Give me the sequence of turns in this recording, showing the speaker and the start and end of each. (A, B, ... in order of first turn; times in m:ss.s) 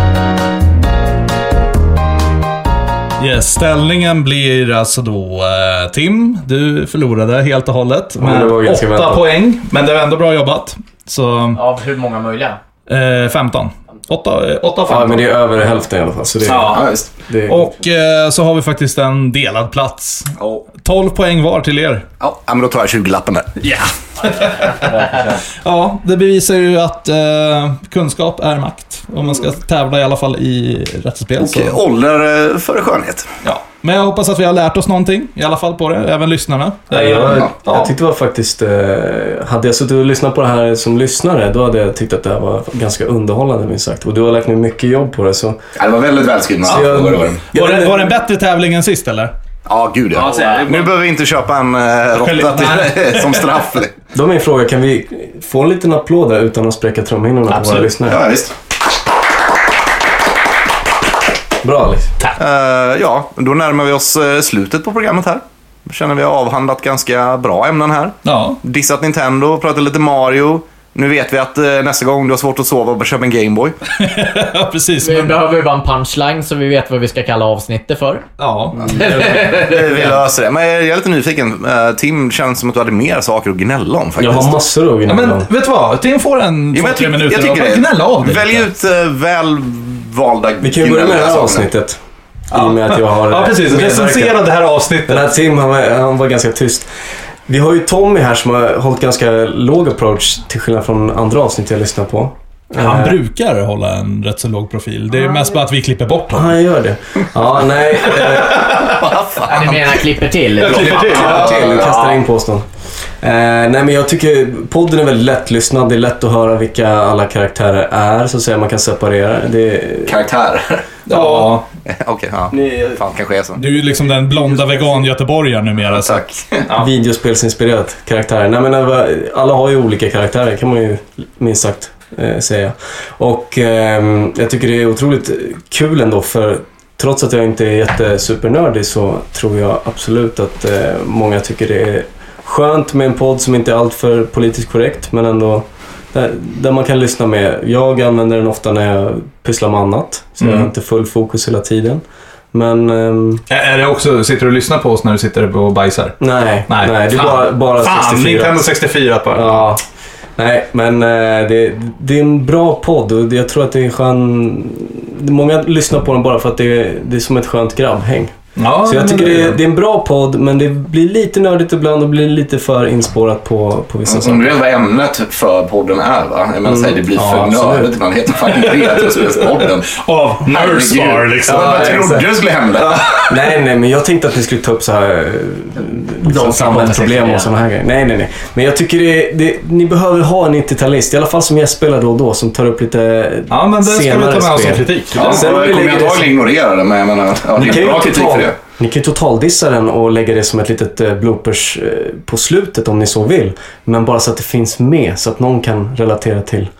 0:03.2-0:11.6 A
0:08.2-0:09.3 B
0:11.5-0:12.6 C
0:12.9-0:15.3 A
0:14.8-0:17.7 B
0:16.4-0:16.9 A
0:16.6-0:17.1 D
0:17.4-0:22.1 A
0:20.4-0:20.6 D
0:22.2-0:23.5 D
0:23.6-0:31.8 A
0:31.4-0:33.3 D
0:33.4-0:37.9 A
0:36.9-0:45.6 B
0:45.8-0:47.4 D
0:46.6-0:48.2 B
0:47.5-0:49.3 A
0:49.6-0:53.9 D
0:50.2-0:50.9 A
0:52.1-0:53.6 A
0:54.1-0:58.2 B
0:57.5-0:57.9 A
0:58.0-0:58.5 D
1:01.6-1:02.1 B
1:02.4-1:13.8 D
1:08.2-1:08.6 A
1:13.9-1:15.4 A
1:15.0-1:18.2 C
1:18.4-1:19.4 A
1:18.8-1:20.2 C
1:19.2-1:24.6 D
1:24.2-1:25.5 B
1:25.1-1:28.7 A
1:26.7-1:31.7 D
1:30.6-1:34.4 B
1:32.5-1:35.3 A
1:35.1-1:43.2 B
1:42.8-1:46.6 A
1:46.3-1:48.9 B
1:48.1-1:48.8 A
1:48.7-1:50.0 D
1:49.4-1:52.1 C
1:50.6-1:51.7 A
1:50.6-1:52.7 B
1:51.2-1:52.0 D
1:53.2-2:00.2 B
2:00.0-2:03.6 D
2:01.1-2:01.7 A
2:02.5-2:03.0 B
2:03.5-2:06.9 A
2:03.6-2:05.1 B
2:05.8-2:06.6 D
2:06.7-2:33.4 B
2:30.4-2:30.7 A
2:33.5-2:36.2 A
2:36.2-2:38.6 B
2:36.7-2:39.7 A
2:39.3-2:39.8 B
2:40.4-2:54.6 B
2:48.6-2:49.6 A
2:54.0-2:59.9 D
2:56.6-2:57.9 B
2:57.2-2:57.5 A
2:58.4-3:02.3 A
3:00.4-3:03.3 D
3:01.4-3:02.3 B
3:02.8-3:03.2 A
3:03.2-3:16.3 B
3:06.2-3:07.5 C
3:13.5-3:15.5 A
3:15.1-3:18.6 D
3:17.5-3:26.7 B